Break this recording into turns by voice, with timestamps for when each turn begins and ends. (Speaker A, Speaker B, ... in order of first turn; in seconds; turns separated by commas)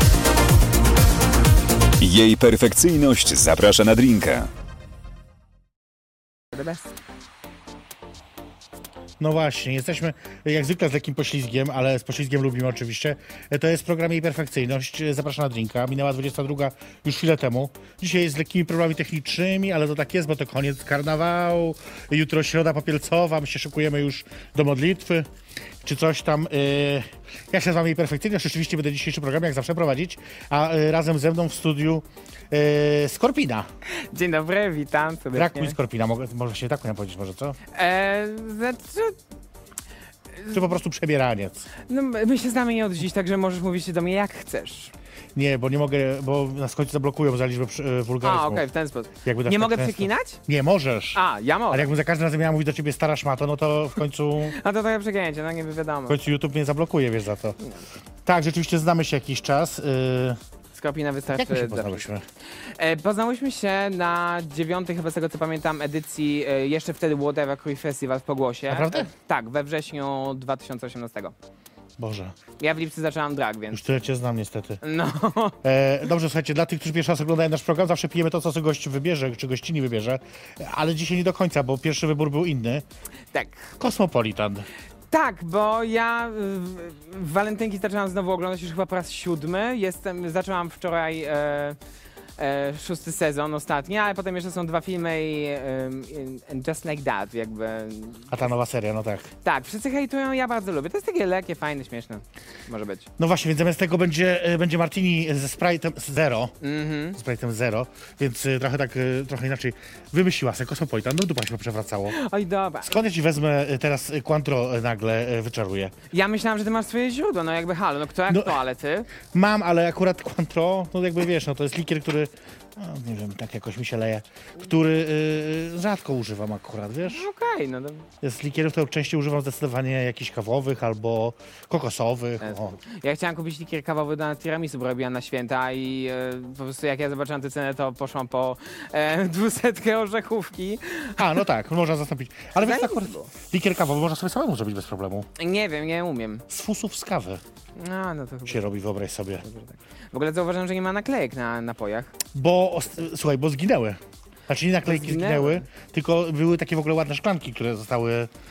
Speaker A: 2.0-4.5, Speaker B: 6.5-6.9, Speaker C: 9.2-25.3, Speaker C: 25.8-33.7, Speaker B: 34.1-35.7, Speaker C: 35.3-37.6, Speaker B: 37.7-39.2, Speaker C: 40.5-41.7, Speaker B: 41.9-44.9, Speaker C: 45.3-48.6, Speaker B: 48.2-50.4, Speaker C: 49.2-54.6, Speaker B: 51.1-51.9, Speaker B: 54.5-56.2, Speaker C: 56.1-57.6, Speaker C: 58.2-60.4, Speaker B: 60.7-62.0, Speaker C: 61.3-62.2, Speaker B: 62.8-71.3, Speaker C: 68.7-69.1, Speaker C: 72.0-72.3, Speaker B: 72.6-73.8, Speaker C: 73.7-74.8, Speaker B: 74.8-75.6, Speaker C: 75.6-82.8, Speaker B: 83.3-83.7, Speaker C: 83.8-84.7, Speaker B: 85.1-91.8, Speaker B: 92.4-98.4, Speaker C: 98.3-99.3, Speaker B: 99.4-103.1, Speaker C: 103.2-106.5, Speaker B: 106.6-107.2, Speaker C: 107.2-112.2, Speaker B: 112.1-113.0, Speaker C: 112.8-115.9, Speaker B: 116.1-119.1, Speaker C: 118.3-118.6, Speaker C: 119.2-127.3, Speaker B: 127.0-128.1, Speaker C: 128.2-132.8, Speaker B: 132.4-141.2, Speaker C: 141.2-145.3, Speaker B: 142.6-143.3, Speaker B: 145.4-146.4, Speaker C: 146.5-147.4, Speaker B: 147.8-148.7, Speaker C: 148.5-149.4, Speaker B: 149.4-152.1, Speaker C: 152.3-158.3, Speaker B: 154.8-155.6